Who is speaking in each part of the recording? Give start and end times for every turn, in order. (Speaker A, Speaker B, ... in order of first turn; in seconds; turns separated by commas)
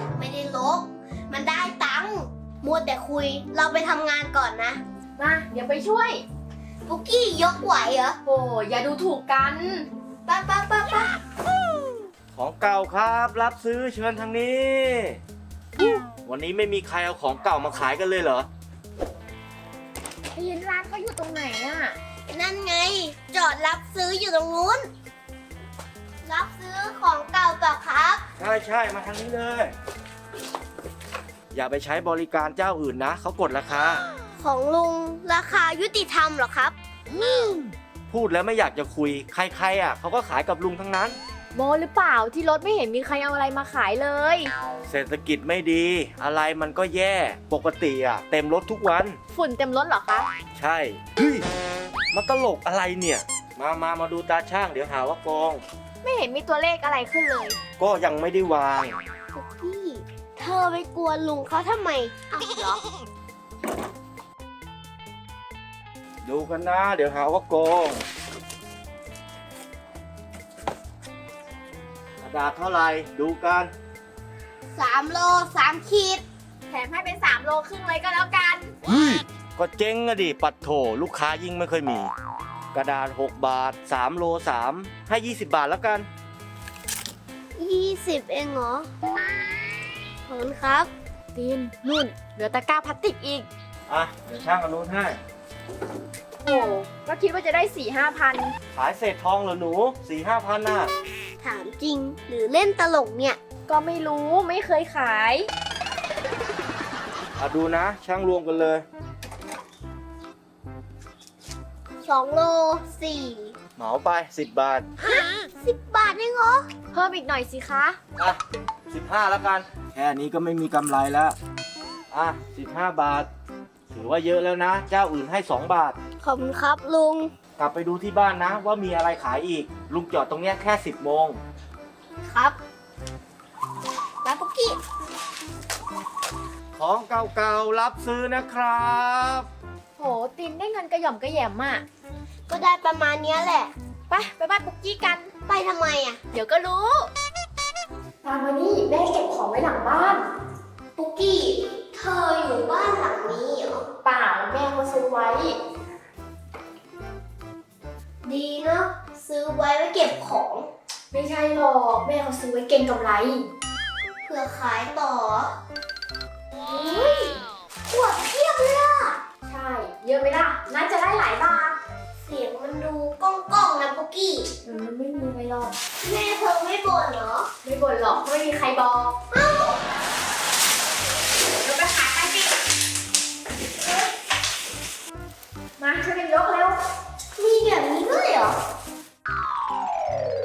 Speaker A: 0.1-4.8, Speaker B: 5.2-6.2, Speaker A: 6.9-8.2, Speaker B: 8.2-9.9, Speaker A: 10.3-11.2, Speaker C: 12.4-15.2, Speaker C: 16.2-18.5, Speaker B: 20.3-22.0, Speaker A: 22.3-24.9, Speaker A: 26.2-28.2, Speaker C: 28.4-29.7, Speaker C: 31.5-34.0, Speaker A: 34.4-36.8, Speaker B: 37.2-37.7, Speaker C: 38.1-41.2, Speaker B: 41.5-44.5, Speaker C: 44.9-49.2, Speaker B: 49.3-50.3, Speaker C: 50.6-51.5, Speaker C: 52.1-55.6, Speaker B: 56.0-57.6, Speaker C: 57.8-59.0, Speaker A: 59.3-62.8, Speaker C: 66.2-68.0, Speaker C: 72.2-73.7, Speaker A: 74.7-76.2, Speaker B: 76.7-78.7, Speaker C: 78.8-82.1, Speaker C: 82.7-86.1, Speaker A: 87.6-88.9, Speaker A: 90.3-90.9, Speaker B: 91.3-93.5, Speaker C: 93.9-95.2, Speaker B: 96.4-98.5, Speaker C: 98.7-100.9, Speaker A: 101.4-103.4, Speaker B: 103.7-105.5, Speaker C: 107.4-108.8, Speaker A: 112.0-113.6, Speaker C: 113.8-114.9, Speaker A: 115.0-116.7, Speaker B: 116.9-118.0, Speaker C: 118.2-121.4, Speaker C: 122.1-123.3, Speaker C: 123.9-126.0, Speaker A: 126.2-127.3, Speaker C: 127.6-131.4, Speaker A: 132.3-132.6, Speaker A: 134.2-134.8, Speaker C: 136.8-139.5, Speaker B: 140.0-141.8, Speaker A: 142.5-143.7, Speaker B: 144.1-145.3, Speaker A: 145.4-146.2, Speaker B: 146.3-147.1, Speaker B: 148.2-150.3, Speaker A: 151.0-153.8, Speaker B: 154.0-155.6, Speaker A: 158.2-160.7, Speaker B: 161.1-163.5, Speaker A: 164.2-165.6, Speaker B: 166.6-167.4, Speaker A: 167.9-169.2, Speaker B: 168.0-168.3, Speaker B: 169.4-171.8, Speaker A: 172.2-174.5, Speaker B: 174.6-175.8, Speaker A: 176.0-177.5, Speaker B: 177.6-179.2, Speaker A: 179.3-179.8, Speaker B: 181.6-182.5, Speaker B: 185.8-186.8, Speaker A: 187.4-188.6